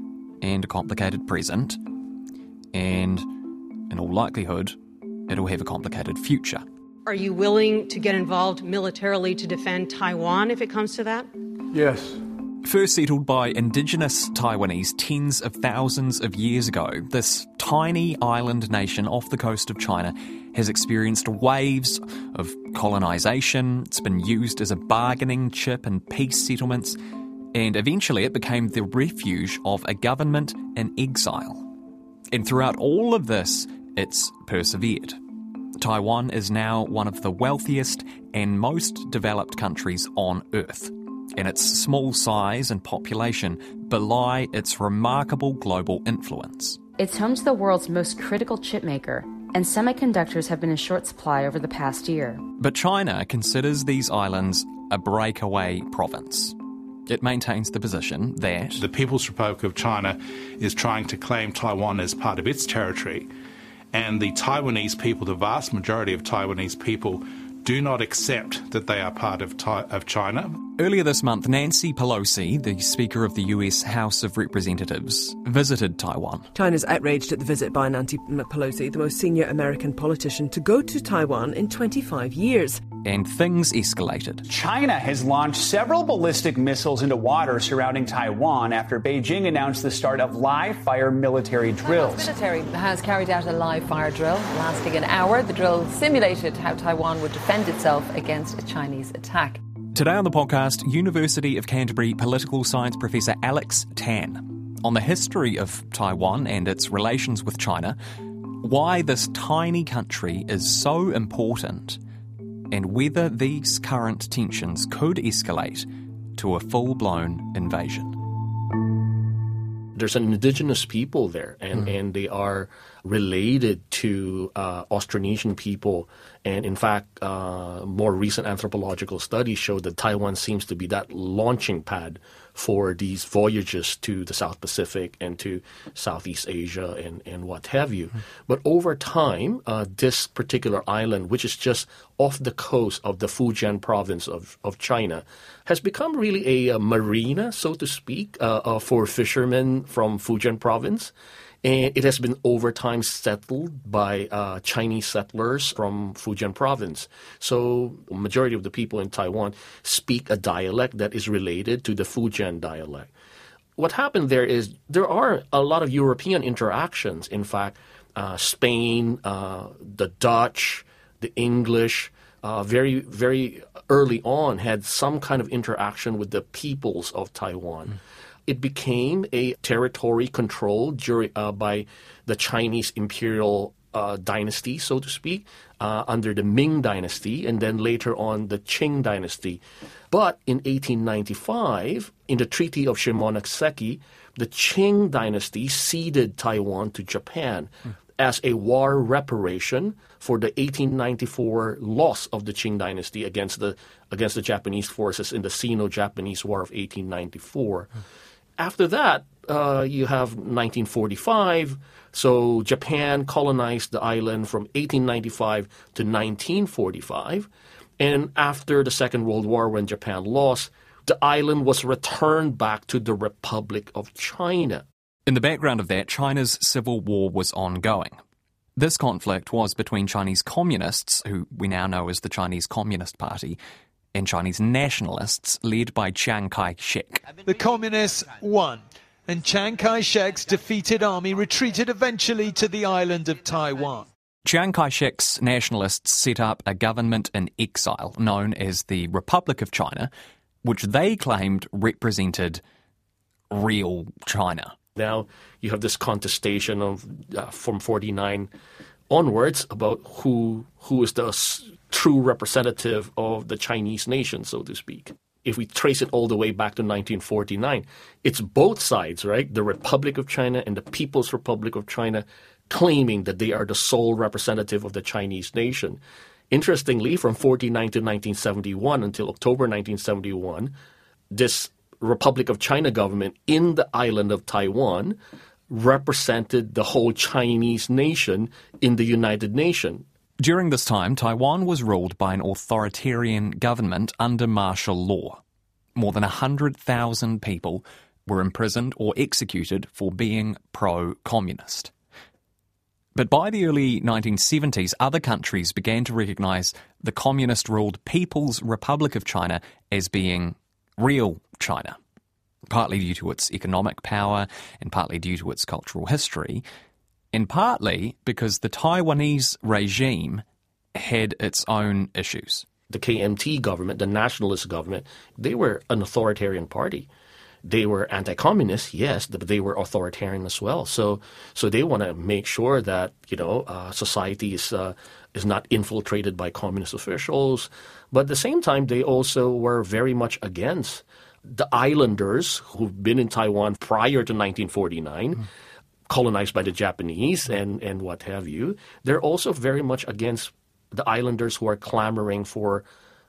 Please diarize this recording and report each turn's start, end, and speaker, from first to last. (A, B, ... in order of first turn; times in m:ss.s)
0:00.4-0:01.8 A
0:02.7-0:03.3 A
0:03.9-0:04.8 A
0:05.3-0:06.6 A
0:07.0-0:11.3 B
0:12.6-0:27.0 A
0:27.5-0:31.7 A
0:32.3-0:35.2 A
0:35.8-0:46.8 A
0:47.0-0:52.4 C
0:52.6-0:58.8 A
0:58.8-1:03.3 D
1:03.9-1:10.6 D
1:10.8-1:16.5 A
1:16.5-1:22.8 E
1:23.0-1:24.4 A
1:24.4-1:32.3 F
1:31.8-1:39.6 G
1:39.9-1:48.0 A
1:48.6-1:52.0 A
1:52.7-1:58.2 A
2:00.0-2:31.1 H
2:31.6-2:43.1 H
2:43.8-3:27.9 H
3:28.6-3:37.5 H
3:38.0-3:44.8 H
3:45.2-3:48.2 A
3:48.8-3:53.6 A
3:54.1-3:57.2 A
3:57.4-4:04.1 I
4:04.4-4:10.1 A
4:10.6-4:12.6 A
4:13.5-4:14.7 A
4:15.0-4:18.5 H
4:19.1-4:36.0 H
4:36.5-4:40.7 H
4:41.3-4:45.2 H
4:45.7-4:50.0 H
4:50.4-4:55.4 A
4:56.0-5:01.9 A
5:03.1-5:12.0 A
5:12.7-5:16.6 A
5:17.3-5:20.4 A
5:20.9-5:22.6 A
5:22.9-5:27.1 H
5:27.6-5:45.4 H
5:46.1-5:52.8 H